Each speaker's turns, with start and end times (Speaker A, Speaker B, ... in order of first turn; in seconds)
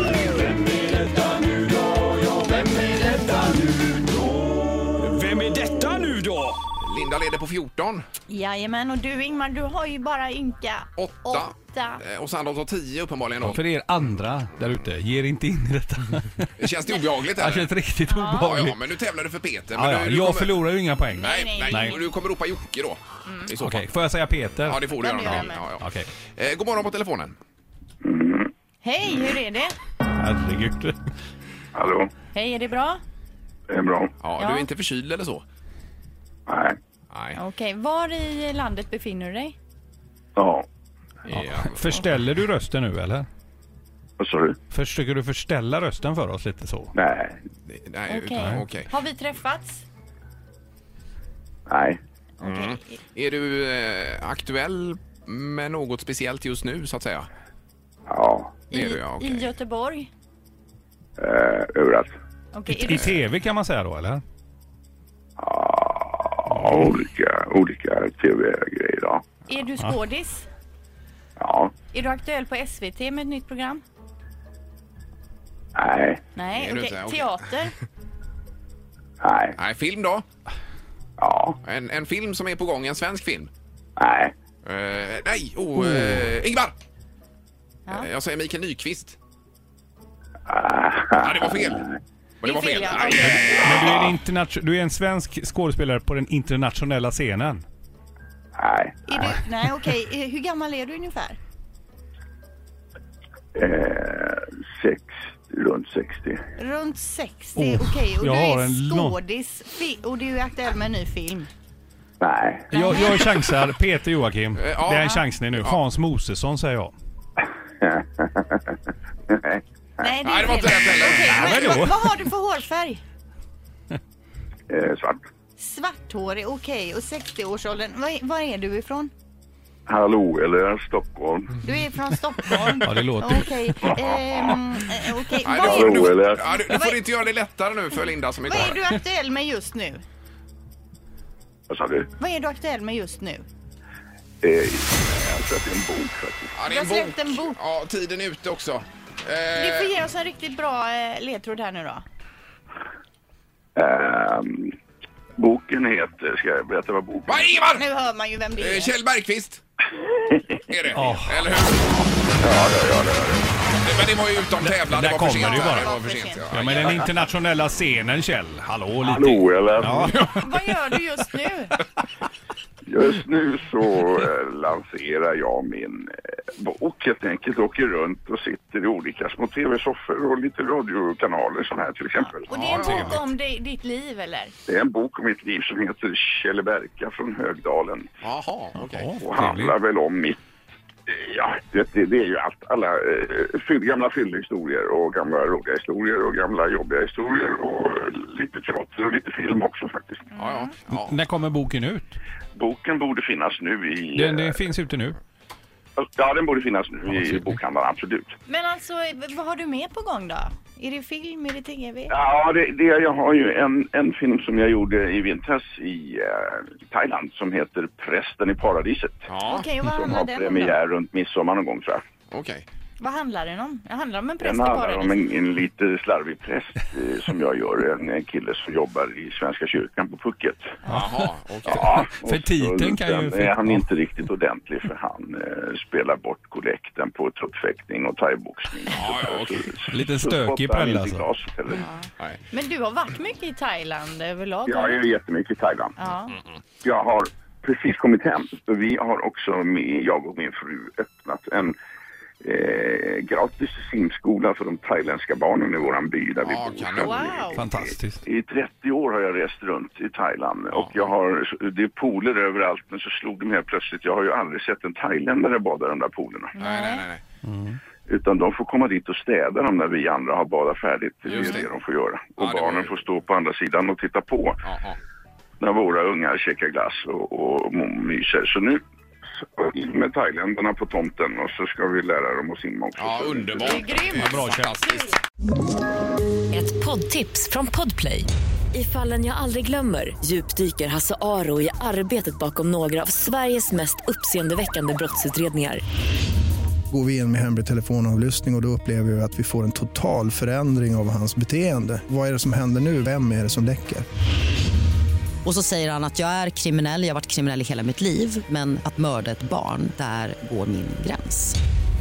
Speaker A: 0.5-3.9, 5.0-6.6, 13.4-16.5, 17.3-18.8, 19.7-22.0, 23.6-24.8, 25.8-26.1, 30.2-30.9, 41.3-43.3, 44.7-46.9, 62.7-64.2, 93.1-97.6, 107.5-109.2, 112.7-116.9, 121.2-121.9, 132.7-133.4, 160.9-161.4, 164.6-165.9, 166.5-170.3, 188.8-189.7, 200.9-202.1, 204.1-205.2, 231.9-233.8, 239.9-241.2, 257.5-258.2, 267.4-267.8, 284.2-284.7
Speaker B: 6.8-8.0, 11.0-13.6, 16.6-17.7, 18.3-20.6, 21.2-23.9, 24.7-27.4, 34.2-35.4, 37.1-37.4, 41.2-42.1, 47.7-48.9, 52.4-57.3, 58.7-59.5, 62.9-63.2, 76.5-77.4, 79.6-80.2, 81.6-83.5, 84.6-86.7, 87.9-89.2, 91.2-91.9, 92.4-94.1, 114.6-115.8, 120.2-121.8, 135.4-138.8, 146.5-149.9, 157.3-157.8, 158.6-159.6, 160.7-162.1, 163.8-167.1, 170.0-170.5, 182.5-183.2, 188.2-189.2, 200.4-201.2, 219.3-219.7, 222.3-222.6, 230.9-231.9, 238.9-239.7, 256.4-257.4, 260.7-261.1, 266.6-267.2, 271.3-271.7, 272.4-273.0, 274.6-275.0, 283.0-285.2
Speaker C: 8.3-12.0, 18.1-18.5, 21.1-22.1, 23.2-23.5, 24.9-25.7, 28.8-29.8, 32.3-33.0, 34.4-34.7, 37.3-39.5, 48.1-49.8, 52.4-53.0, 58.7-60.1, 62.5-63.2, 69.5-70.5, 71.9-73.8, 76.3-77.7, 92.4-93.8, 99.1-101.4, 106.6-111.5, 112.7-113.4, 120.0-123.0, 125.6-129.1, 131.6-137.0, 138.4-140.0, 142.2-143.4, 146.7-147.6, 149.5-152.0, 157.8-158.9, 165.3-167.0, 170.4-171.8, 182.2-184.5, 200.3-200.7, 208.5-212.1, 219.4-220.8, 223.0-225.2, 241.7-245.0, 246.0-246.3, 257.0-257.6, 266.5-267.0, 271.3-271.6, 283.6-285.1
Speaker D: 28.0-28.5, 31.7-32.1, 33.7-34.1, 36.5-36.8, 40.4-40.6, 44.2-44.6, 46.9-47.4, 51.7-52.0, 58.1-58.5, 61.2-62.1, 65.4-69.2, 71.4-71.7, 75.8-76.2, 79.2-79.6, 81.2-81.6, 84.0-84.3, 90.5-92.0, 98.6-99.0, 103.5-106.4, 112.2-113.0, 117.8-118.6, 119.3-119.6, 124.7-125.2, 129.9-131.6, 135.4-136.5, 141.7-142.1, 144.4-146.5, 153.8-154.7, 155.4-157.5, 160.0-160.6, 162.4-163.5, 169.0-170.2, 172.9-182.5, 184.7-188.1, 189.2-190.4, 191.1-200.2, 202.5-204.7, 206.0-208.3, 212.1-219.3, 219.8-222.0, 224.4-231.1, 231.6-241.9, 244.7-245.9, 246.8-251.8, 252.4-266.5, 268.1-274.6, 275.6-278.8, 279.4-283.9
Speaker E: 286.5-295.8
Speaker F: 296.9-304.1
Speaker G: 305.4-311.6